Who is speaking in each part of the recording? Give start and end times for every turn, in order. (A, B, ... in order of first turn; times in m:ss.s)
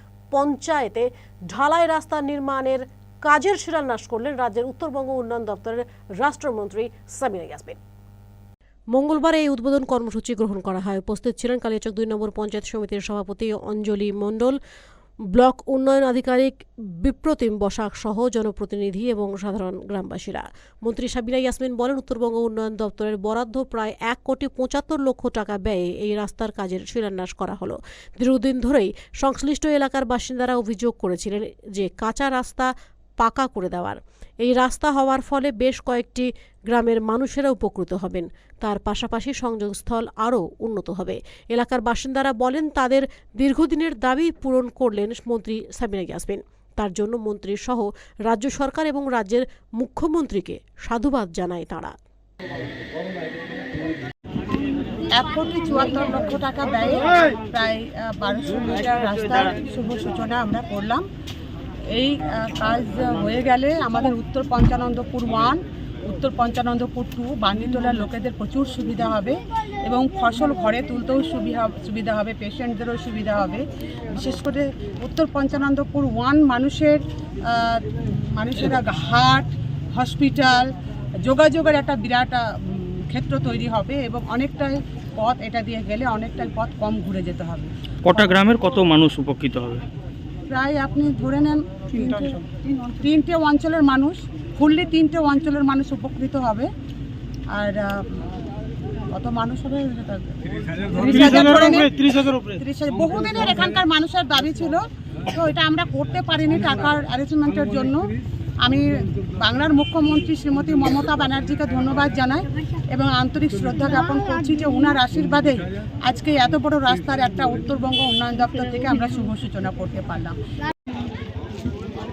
0:00.3-0:07.8 A
0:08.9-0:14.6 A
0:15.3-0:51.9 A
0:55.1-1:01.0 B
1:01.9-1:20.7 B
1:21.2-1:27.7 B
1:28.0-1:29.8 C
1:30.5-1:32.5 B
1:33.0-1:36.7 B
1:37.5-1:38.2 B
1:39.1-1:40.4 B
1:40.9-1:41.9 B
1:41.0-1:42.6 C
1:42.6-2:00.4 B